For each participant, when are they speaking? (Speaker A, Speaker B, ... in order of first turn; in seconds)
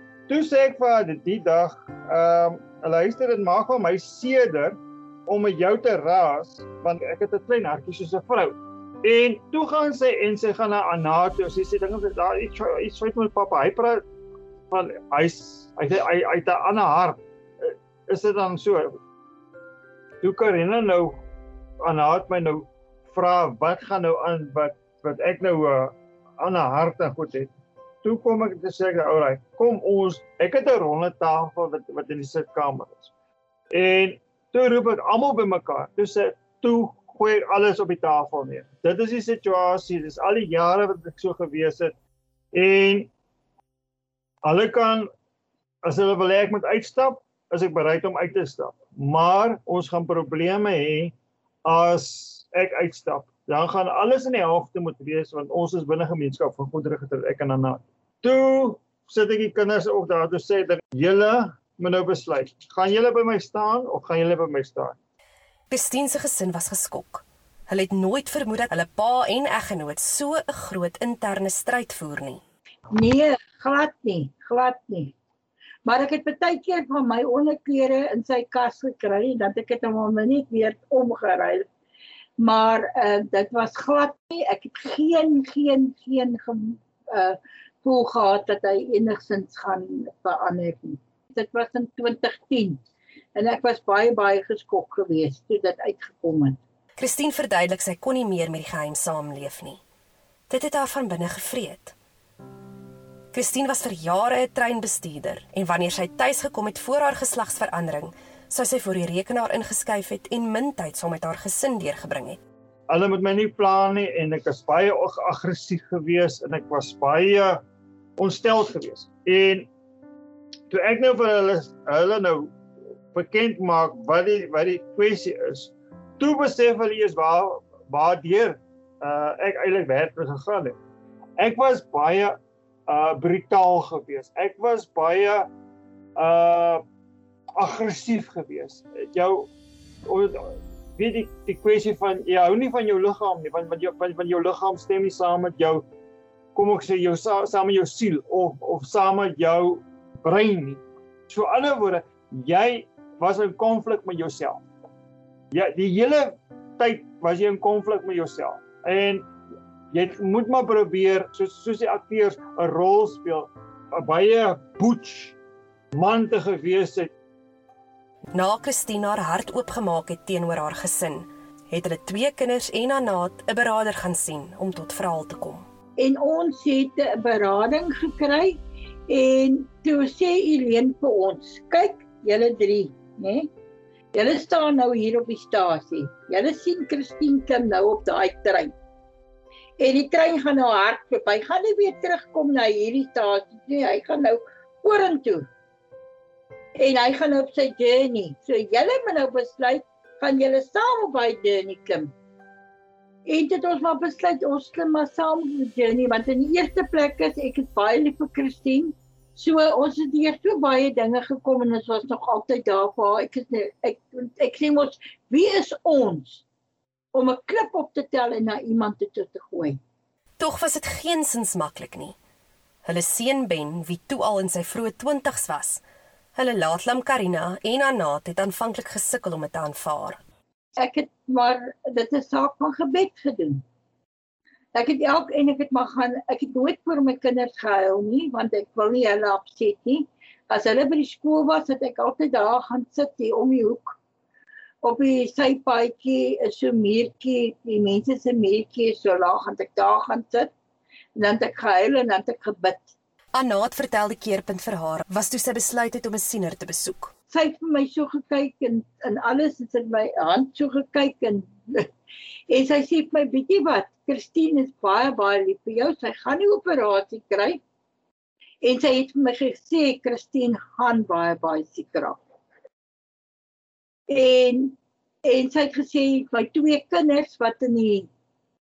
Speaker A: 0.3-14.0, 14.7-19.0, 20.2-21.2, 21.8-27.5, 28.0-33.1, 33.7-41.9, 42.5-43.1, 44.4-45.1, 45.8-51.1, 51.6-65.0, 112.9-117.6, 118.2-119.7, 120.7-122.5, 123.1-130.8, 131.4-135.5, 136.2-136.8, 137.6-139.5, 140.1-145.8, 146.6-154.6, 155.5-159.3, 159.9-165.4, 165.9-167.1
Speaker B: 65.7-72.4, 97.0-99.8, 100.5-102.0, 103.3-112.4, 168.3-175.7, 220.4-222.2, 222.8-225.8, 226.4-230.2, 253.3-257.1
Speaker C: 72.9-75.2, 75.8-81.7, 82.4-92.8, 93.3-96.6, 176.0-183.5, 184.1-188.7, 189.8-195.5, 196.8-202.1, 203.3-216.4, 217.1-219.8, 230.8-233.6, 234.7-244.0, 244.8-250.5, 251.2-252.9, 257.3-261.9, 262.5-267.6, 268.6-272.2, 274.1-278.1